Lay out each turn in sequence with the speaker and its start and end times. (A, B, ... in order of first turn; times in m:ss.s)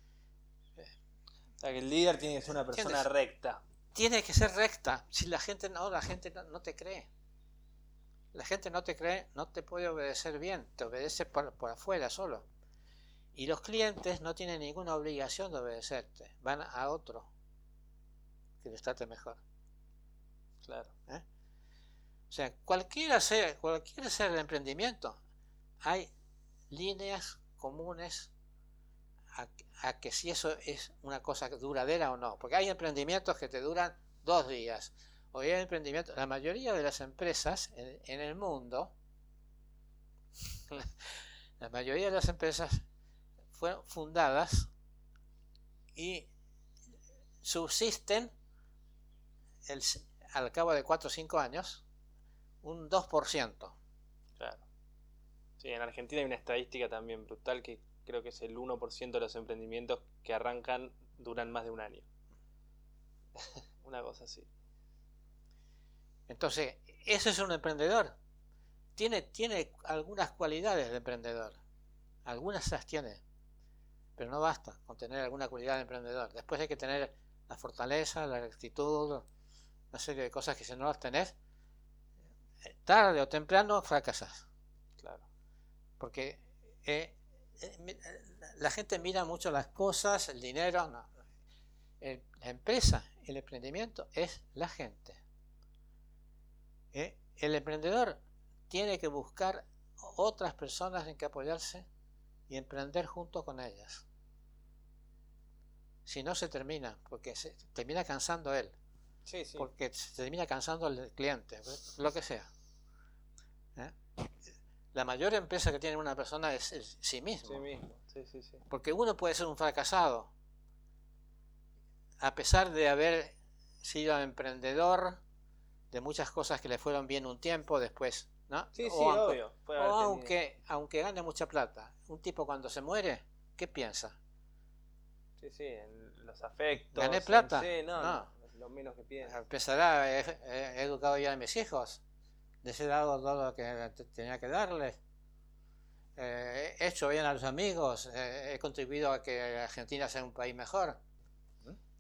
0:01.6-0:03.6 A
0:02.7-0:03.0 B
0:03.9-0:07.1 B
0:08.3-0:12.5 B
0:13.4-0:17.3 B
0:18.6-0:19.4 B
0:20.6-0:20.9 A
0:22.3-0:25.2 B
0:25.8-0:26.1 B
0:26.7-0:28.3 B
0:29.3-0:38.9 B
0:41.6-0:42.8 B
0:43.5-0:44.7 B
0:46.0-0:46.3 B
0:47.4-0:48.3 B
0:49.6-0:51.8 B
0:52.6-0:53.8 B
0:54.4-0:54.6 A
0:55.6-1:02.0 A
1:03.4-1:04.5 A
1:06.3-1:08.2 B
1:09.0-1:11.6 B
1:12.3-1:13.2 B
1:14.2-1:19.3 B
1:19.9-1:21.3 B
1:22.6-1:24.4 B
1:26.0-1:31.1 B
1:32.0-1:35.2 B
1:36.9-1:38.2 B
1:38.7-1:41.9 B
1:42.5-1:44.0 B
1:46.1-1:48.8 B
1:49.3-1:49.7 A
1:49.6-1:52.5 B
1:53.8-1:57.7 B
1:57.5-1:58.6 A
1:58.7-2:00.3 B
2:02.2-2:05.2 B
2:05.9-2:14.2 B
2:08.8-2:10.3 A
2:15.4-2:19.4 A
2:16.9-2:18.3 B
2:19.3-2:22.0 B
2:22.6-2:25.0 B
2:26.2-2:31.0 B